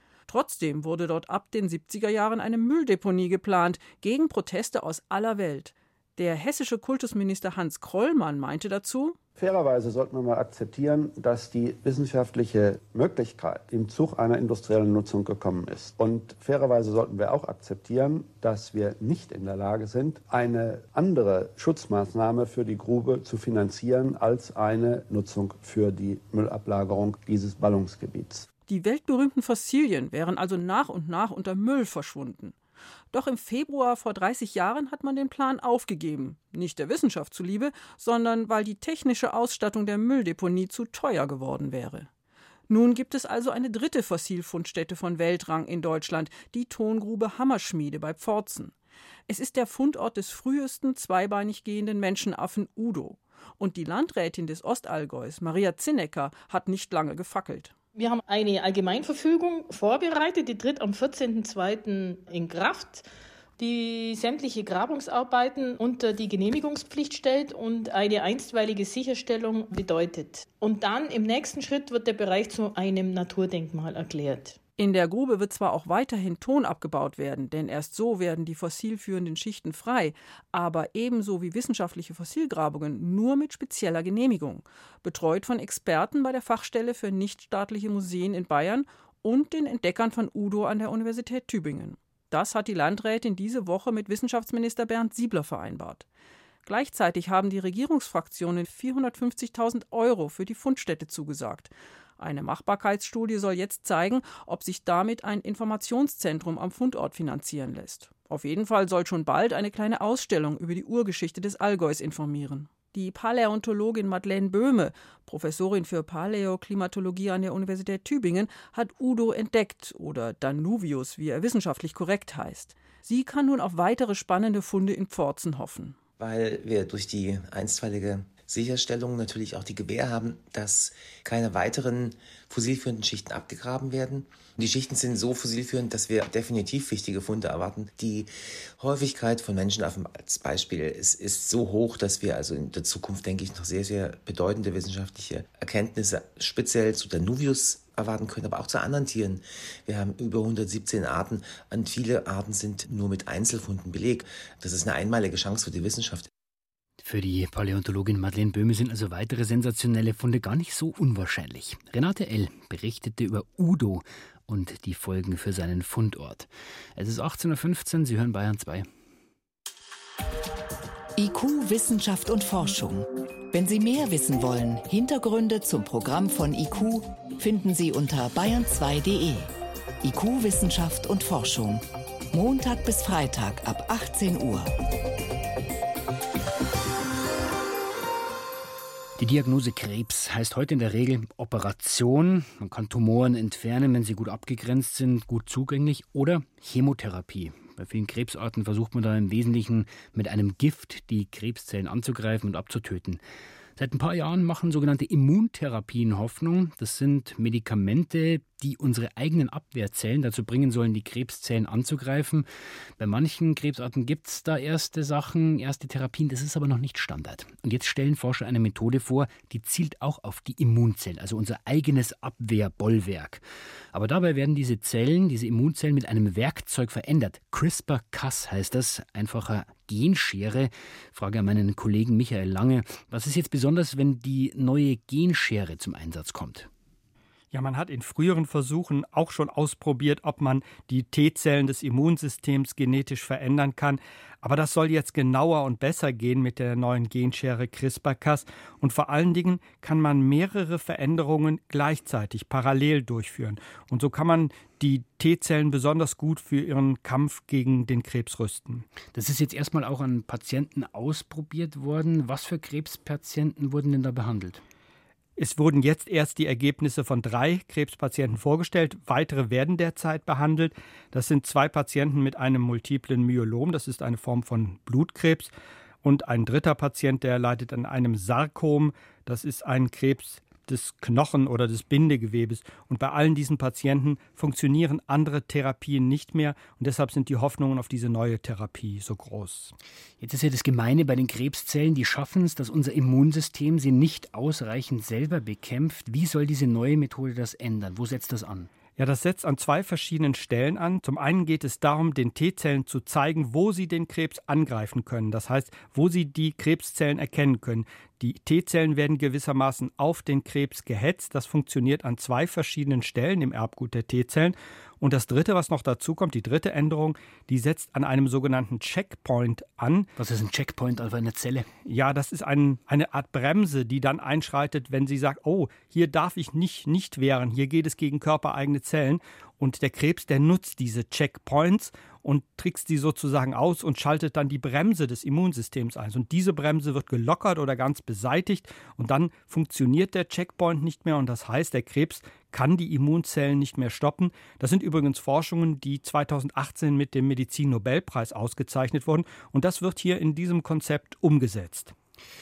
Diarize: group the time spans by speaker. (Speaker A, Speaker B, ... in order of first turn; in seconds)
Speaker A: 0.3-9.2, 28.7-32.5, 33.1-42.1, 42.7-48.7, 49.3-57.7, 74.8-96.0, 96.6-126.0
Speaker B: 9.3-28.5
Speaker C: 57.9-63.0, 63.6-74.6
Speaker D: 126.2-156.3
Speaker E: 157.0-168.9, 189.2-203.2, 203.8-212.4, 213.0-236.7, 259.1-264.6, 290.2-298.7, 320.2-321.7
Speaker F: 171.2-179.5, 180.0-184.7
Speaker G: 237.5-258.9, 265.4-275.5, 276.0-289.7, 299.0-320.1, 321.8-351.9